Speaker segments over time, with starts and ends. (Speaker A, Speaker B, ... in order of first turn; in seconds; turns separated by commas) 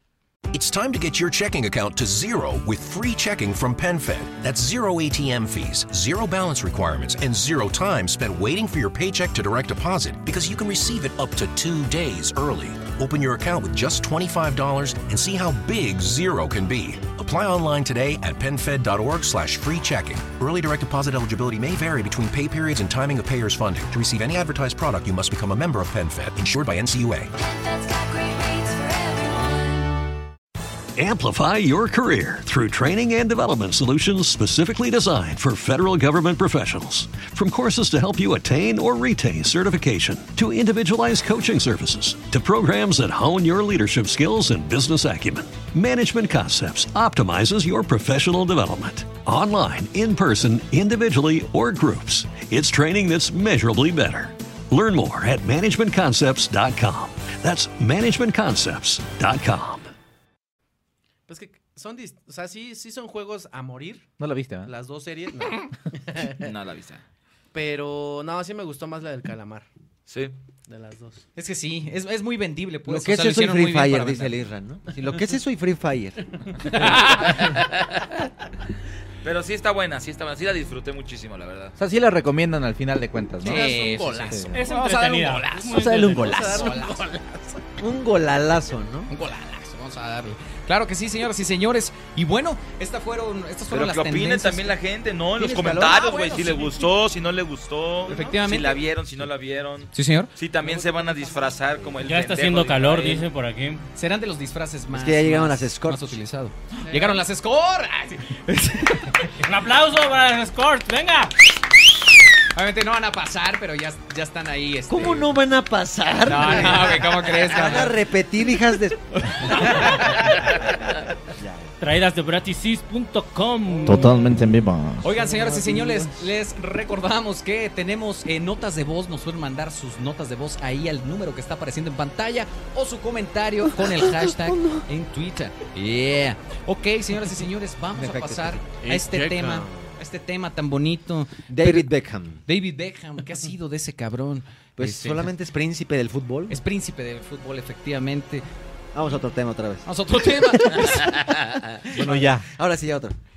Speaker A: 0.5-27.3, Speaker B: 27.3-30.1, Speaker C: 30.9-59.9, Speaker D: 61.3-64.1, Speaker E: 64.2-64.7, Speaker D: 64.6-66.4, Speaker F: 66.4-67.0, Speaker D: 67.5-69.7, Speaker F: 70.1-70.3, Speaker D: 70.7-71.2, Speaker G: 71.3-74.3, Speaker H: 72.8-76.2, Speaker F: 77.3-77.7, Speaker F: 79.2-81.7, Speaker E: 81.8-84.5, Speaker D: 83.4-84.5, Speaker G: 83.4-87.2, Speaker I: 84.5-86.5, Speaker E: 85.7-86.7, Speaker D: 86.2-87.3, Speaker H: 87.8-89.1, Speaker G: 89.1-94.7, Speaker F: 93.7-103.2, Speaker H: 95.4-96.3, Speaker G: 95.8-96.6, Speaker G: 98.1-98.8, Speaker D: 98.1-98.4, Speaker G: 99.9-100.3, Speaker D: 100.6-101.9, Speaker I: 102.0-103.9, Speaker G: 103.9-109.3, Speaker H: 104.9-106.2, Speaker D: 106.8-107.2, Speaker I: 109.4-111.3, Speaker G: 112.5-115.3, Speaker H: 114.9-119.5, Speaker G: 116.2-118.0, Speaker H: 121.4-121.7, Speaker I: 121.8-124.2, Speaker E: 123.8-125.1, Speaker G: 125.0-141.9, Speaker D: 125.2-126.1, Speaker H: 133.9-134.8, Speaker H: 137.9-138.7, Speaker D: 138.8-139.7, Speaker H: 141.5-142.4, Speaker G: 142.4-145.3, Speaker H: 144.8-146.6, Speaker G: 146.5-148.4, Speaker H: 148.9-149.9, Speaker G: 149.8-152.0, Speaker E: 152.0-152.4, Speaker H: 152.0-153.2